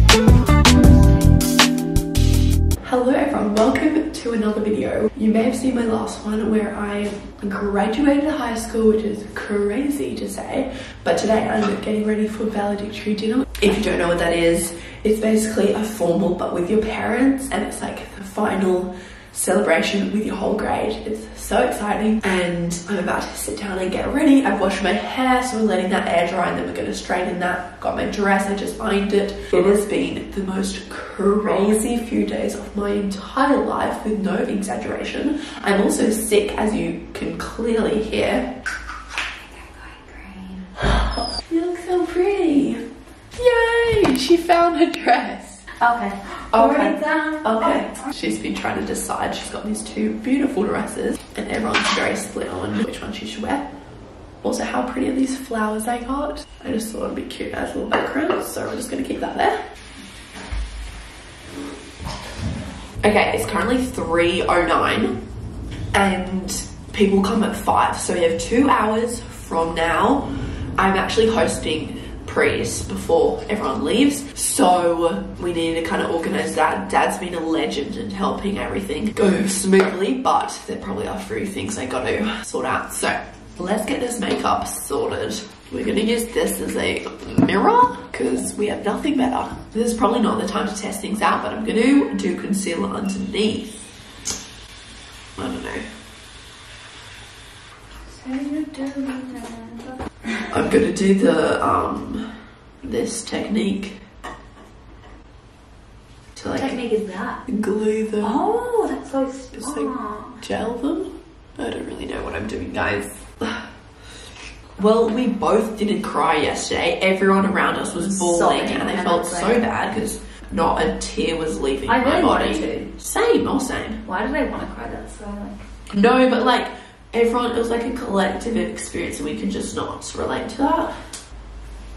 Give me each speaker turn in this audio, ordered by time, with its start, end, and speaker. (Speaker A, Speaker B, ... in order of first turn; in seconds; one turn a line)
Speaker A: 2.8-38.5
Speaker B: 39.4-40.7
Speaker A: 40.9-45.6
Speaker B: 45.8-48.1
Speaker A: 46.5-53.7
Speaker A: 54.4-59.6
Speaker A: 63.0-65.2
Speaker A: 65.9-93.9
Speaker A: 95.3-95.9
Speaker B: 98.1-100.5
Speaker A: 100.5-102.3
Speaker A: 102.8-104.0
Speaker A: 106.3-106.8
Speaker B: 106.5-107.4
Speaker A: 107.5-108.4
Speaker B: 108.2-110.4
Speaker A: 109.5-113.7
Speaker A: 114.8-124.0
Speaker B: 118.0-119.7
Speaker B: 121.9-122.9
Speaker B: 124.0-125.6
Speaker A: 125.9-131.1